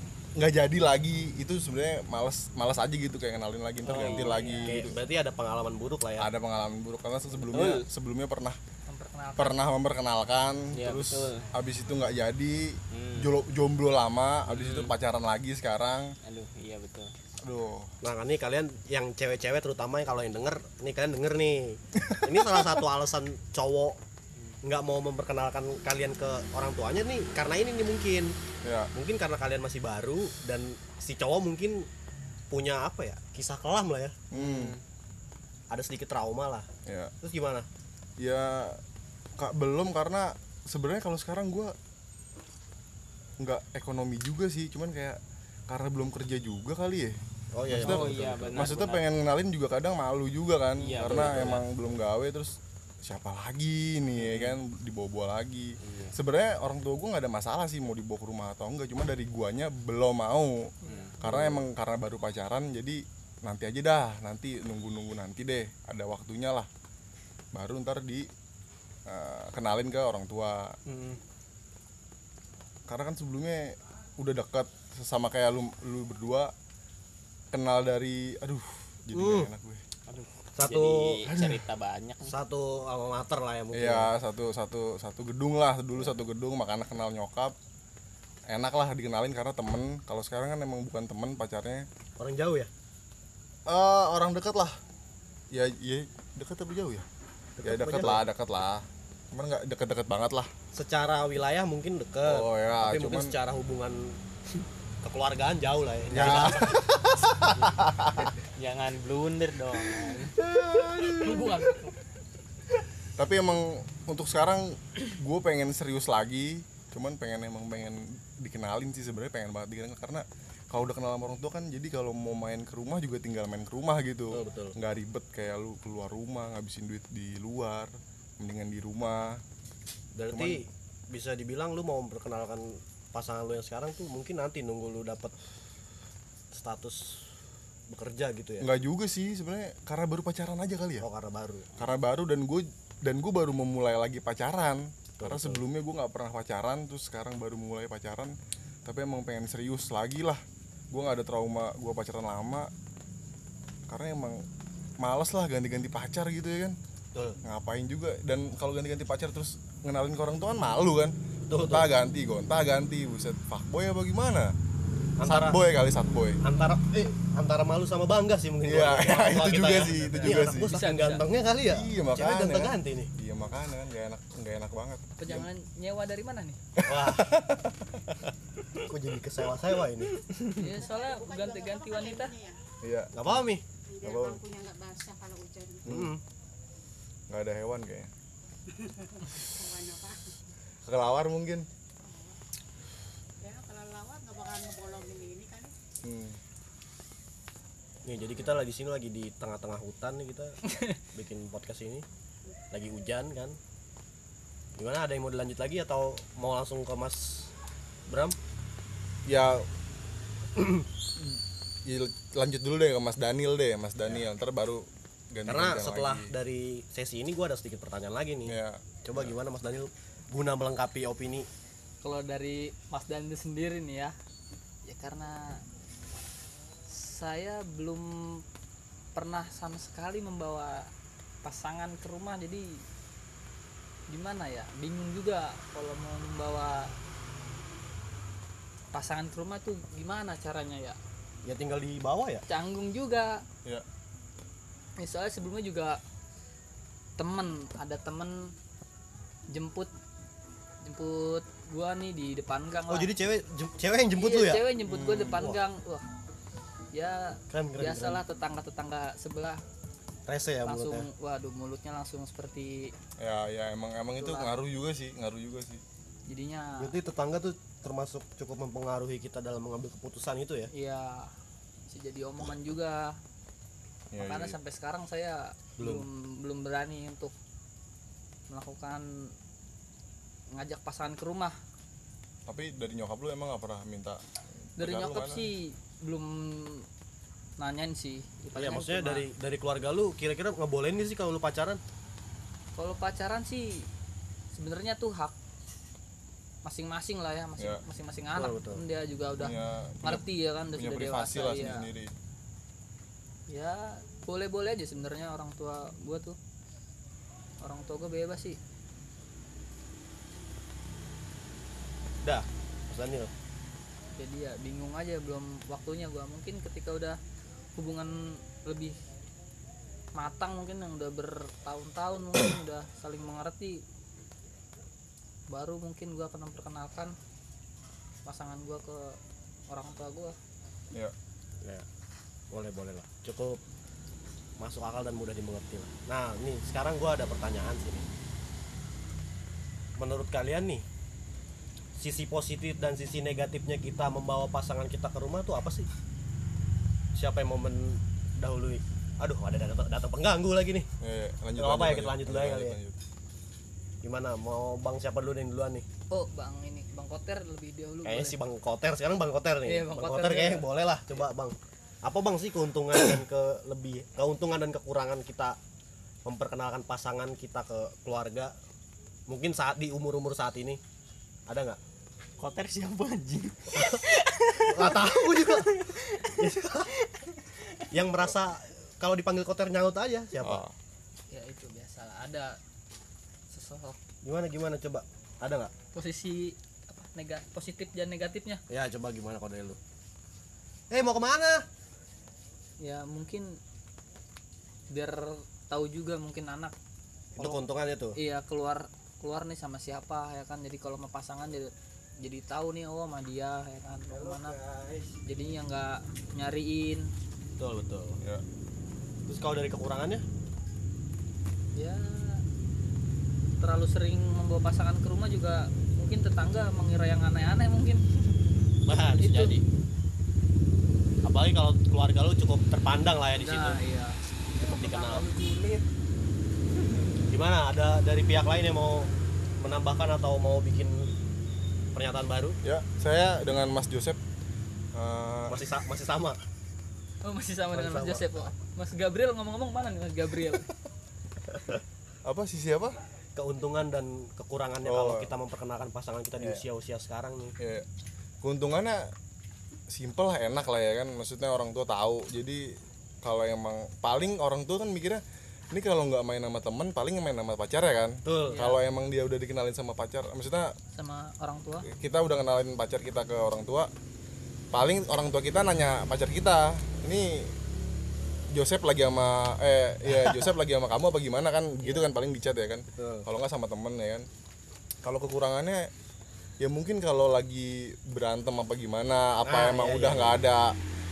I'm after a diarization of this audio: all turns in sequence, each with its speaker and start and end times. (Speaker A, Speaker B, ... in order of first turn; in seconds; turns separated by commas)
Speaker A: 0.3-5.0, Speaker B: 3.8-4.8, Speaker C: 3.9-6.3, Speaker A: 6.2-8.6, Speaker B: 7.5-7.8, Speaker D: 8.8-9.6, Speaker A: 9.4-16.1, Speaker B: 10.7-11.5, Speaker B: 12.9-13.3, Speaker B: 14.5-14.9, Speaker B: 16.2-17.1, Speaker A: 17.4-17.9, Speaker C: 18.0-24.0, Speaker A: 22.0-22.8, Speaker C: 24.6-28.3, Speaker A: 28.6-28.9, Speaker C: 28.9-31.9, Speaker C: 32.5-34.2, Speaker A: 34.3-34.7, Speaker B: 34.3-34.8, Speaker C: 35.7-36.7, Speaker A: 36.9-37.1, Speaker C: 37.2-37.7, Speaker A: 38.2-38.8, Speaker A: 39.4-41.7, Speaker A: 43.4-66.7, Speaker C: 47.5-48.8, Speaker B: 47.7-49.0, Speaker B: 50.8-51.6, Speaker C: 51.0-51.5, Speaker B: 54.2-54.5, Speaker C: 55.8-56.1, Speaker D: 60.8-61.1, Speaker B: 60.9-61.1, Speaker C: 61.2-61.5, Speaker A: 67.5-68.3, Speaker A: 69.1-70.7, Speaker B: 70.9-71.2, Speaker A: 72.9-76.5, Speaker A: 77.5-79.8, Speaker C: 79.1-79.5, Speaker B: 80.1-82.3, Speaker C: 80.5-81.3, Speaker A: 81.3-81.6, Speaker C: 82.2-84.1, Speaker A: 83.7-87.5, Speaker A: 88.5-91.8, Speaker C: 92.2-92.7, Speaker A: 93.7-94.8, Speaker A: 95.5-97.0, Speaker C: 97.6-98.2, Speaker A: 97.6-100.5, Speaker C: 100.7-104.2, Speaker A: 102.2-103.3, Speaker C: 105.0-106.8, Speaker A: 106.1-108.3, Speaker B: 108.6-110.4, Speaker A: 110.0-111.7, Speaker D: 111.2-111.9, Speaker A: 113.2-129.4, Speaker C: 124.3-124.8, Speaker C: 130.2-135.3, Speaker A: 130.3-130.6, Speaker C: 136.5-137.3, Speaker C: 137.9-138.7, Speaker A: 138.6-141.1, Speaker C: 141.0-141.7, Speaker A: 141.8-152.7, Speaker C: 145.2-145.6, Speaker A: 153.9-154.4, Speaker A: 155.0-156.8, Speaker C: 157.1-157.4, Speaker A: 157.4-164.5, Speaker C: 161.5-161.9, Speaker C: 165.2-165.6, Speaker A: 165.2-166.4, Speaker C: 166.4-173.1, Speaker A: 168.6-170.8, Speaker D: 169.6-171.2, Speaker A: 171.6-175.4, Speaker D: 175.2-176.6, Speaker A: 176.8-178.2, Speaker C: 176.9-177.3, Speaker C: 178.9-180.1, Speaker D: 180.5-182.3, Speaker E: 180.7-182.6, Speaker A: 182.8-183.4, Speaker C: 183.1-183.6, Speaker E: 183.8-186.0, Speaker A: 184.0-184.4, Speaker A: 185.8-186.1, Speaker C: 185.8-186.2, Speaker A: 187.3-188.1, Speaker E: 188.8-190.4, Speaker A: 190.8-191.7, Speaker E: 192.0-192.3, Speaker E: 193.4-195.7, Speaker A: 196.0-196.4, Speaker C: 198.0-200.6, Speaker D: 200.6-201.0, Speaker C: 201.1-202.0, Speaker C: 202.7-203.6, Speaker C: 204.8-207.5, Speaker C: 208.1-208.4, Speaker A: 209.2-209.7, Speaker C: 210.6-210.9, Speaker A: 211.8-216.3, Speaker C: 215.5-221.5, Speaker A: 218.4-219.3, Speaker D: 222.0-224.1, Speaker D: 224.8-225.6, Speaker D: 226.9-228.4, Speaker D: 229.1-230.9, Speaker D: 231.4-232.8, Speaker D: 234.1-236.9, Speaker D: 238.9-241.0, Speaker C: 241.4-242.4, Speaker D: 242.5-243.4, Speaker D: 245.0-246.0, Speaker D: 247.2-248.5, Speaker D: 249.5-249.9, Speaker D: 250.8-253.1, Speaker C: 252.9-254.6, Speaker D: 254.2-256.1, Speaker A: 254.8-255.5, Speaker C: 255.3-255.6, Speaker D: 256.9-259.6, Speaker C: 257.5-258.2, Speaker C: 260.3-261.1, Speaker D: 260.6-262.9, Speaker A: 263.2-265.8, Speaker D: 264.2-264.5, Speaker D: 266.3-266.9, Speaker C: 266.8-270.7, Speaker D: 270.7-271.3, Speaker D: 271.9-273.2, Speaker A: 274.1-274.6, Speaker D: 274.2-277.3, Speaker C: 275.8-276.1, Speaker D: 278.5-279.1, Speaker D: 280.5-281.6, Speaker A: 282.5-284.2, Speaker A: 284.7-285.4, Speaker D: 284.8-286.9, Speaker D: 287.6-289.2, Speaker C: 288.5-291.8, Speaker D: 292.8-293.9, Speaker D: 294.5-295.3, Speaker D: 296.6-301.9, Speaker C: 298.3-298.8, Speaker A: 299.4-302.1, Speaker D: 303.5-306.4, Speaker D: 307.6-308.6, Speaker C: 312.2-313.3, Speaker D: 314.2-317.2, Speaker D: 317.8-318.9, Speaker D: 320.1-323.8, Speaker D: 325.5-327.1, Speaker D: 328.2-330.4, Speaker C: 332.5-333.6, Speaker C: 334.6-338.1, Speaker C: 340.0-340.8, Speaker C: 342.0-345.9, Speaker C: 347.1-350.9, Speaker A: 351.0-353.0, Speaker C: 351.6-352.8, Speaker C: 354.0-355.9, Speaker D: 356.1-358.4, Speaker C: 358.0-365.6, Speaker D: 359.6-360.7, Speaker C: 366.2-368.5, Speaker C: 369.3-370.8, Speaker C: 371.5-371.8, Speaker B: 372.4-377.8, Speaker C: 373.7-374.0, Speaker C: 374.6-376.9, Speaker C: 377.9-380.6, Speaker A: 380.4-380.7, Speaker D: 381.3-382.6, Speaker D: 383.5-384.0, Speaker C: 384.2-385.7, Speaker D: 385.9-388.6, Speaker C: 388.7-389.8, Speaker C: 390.9-391.6, Speaker D: 392.8-393.6, Speaker D: 394.9-396.7, Speaker C: 397.4-398.2, Speaker D: 398.1-404.6, Speaker C: 404.1-405.2, Speaker D: 405.2-407.1, Speaker C: 407.6-408.2, Speaker C: 409.3-410.2, Speaker D: 411.7-412.4, Speaker D: 413.6-418.0, Speaker C: 418.8-419.6, Speaker D: 419.2-419.6, Speaker C: 421.2-423.8, Speaker D: 423.4-425.8, Speaker C: 424.6-425.2, Speaker C: 427.3-429.1, Speaker C: 429.6-431.1, Speaker C: 431.9-432.6, Speaker A: 432.6-434.2, Speaker A: 434.9-435.6, Speaker C: 435.5-436.4, Speaker D: 437.2-440.7, Speaker C: 437.7-438.4, Speaker A: 442.2-443.0, Speaker C: 443.4-447.6, Speaker A: 444.8-445.3, Speaker A: 446.4-446.6, Speaker A: 447.6-447.9, Speaker A: 448.4-449.1, Speaker A: 449.9-460.7, Speaker C: 458.2-458.6, Speaker D: 458.4-458.8, Speaker D: 460.9-461.9, Speaker A: 461.9-463.9, Speaker A: 464.7-467.5, Speaker A: 468.5-474.3, Speaker C: 470.2-470.5, Speaker C: 473.0-473.3, Speaker A: 475.0-475.9, Speaker A: 476.6-480.8, Speaker C: 479.4-480.4